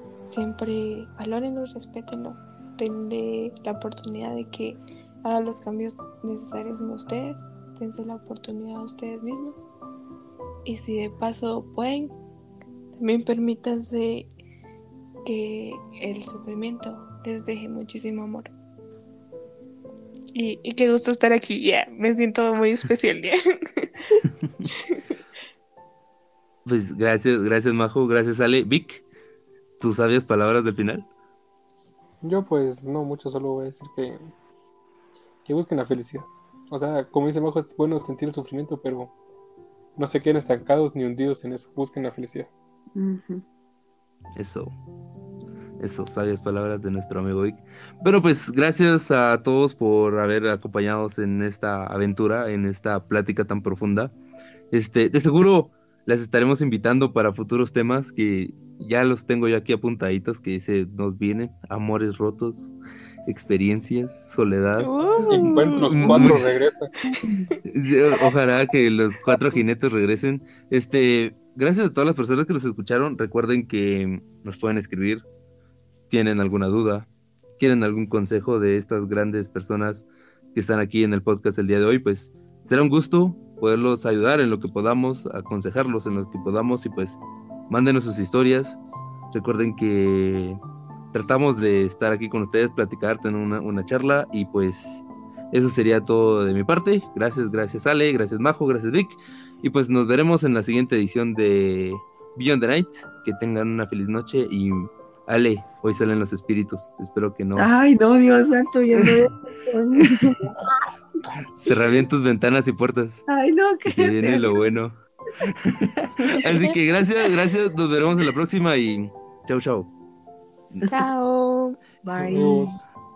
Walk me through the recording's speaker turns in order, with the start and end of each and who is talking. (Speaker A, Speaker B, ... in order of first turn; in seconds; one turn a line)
Speaker A: 0.2-9.7
Speaker A: 10.7-12.1
Speaker A: 13.0-14.3
Speaker A: 15.2-18.5
Speaker A: 20.4-23.9
Speaker B: 26.6-29.0
Speaker B: 29.8-31.1
Speaker C: 32.2-34.3
Speaker C: 35.5-39.1
Speaker C: 40.0-42.5
Speaker D: 43.0-43.4
Speaker B: 44.4-44.7
Speaker B: 45.8-54.1
Speaker B: 54.7-62.7
Speaker B: 63.3-66.4
Speaker A: 64.8-66.4
Speaker C: 65.3-66.9
Speaker A: 67.1-67.5
Speaker B: 67.7-75.2
Speaker B: 76.1-88.8
Speaker B: 89.3-90.6
Speaker B: 91.1-107.7
Speaker D: 107.6-110.5
Speaker B: 109.0-109.2
Speaker B: 111.5-113.2
Speaker D: 113.3-114.5
Speaker B: 113.9-119.9
Speaker A: 120.9-121.8
Speaker D: 122.0-122.8
Speaker C: 122.2-122.9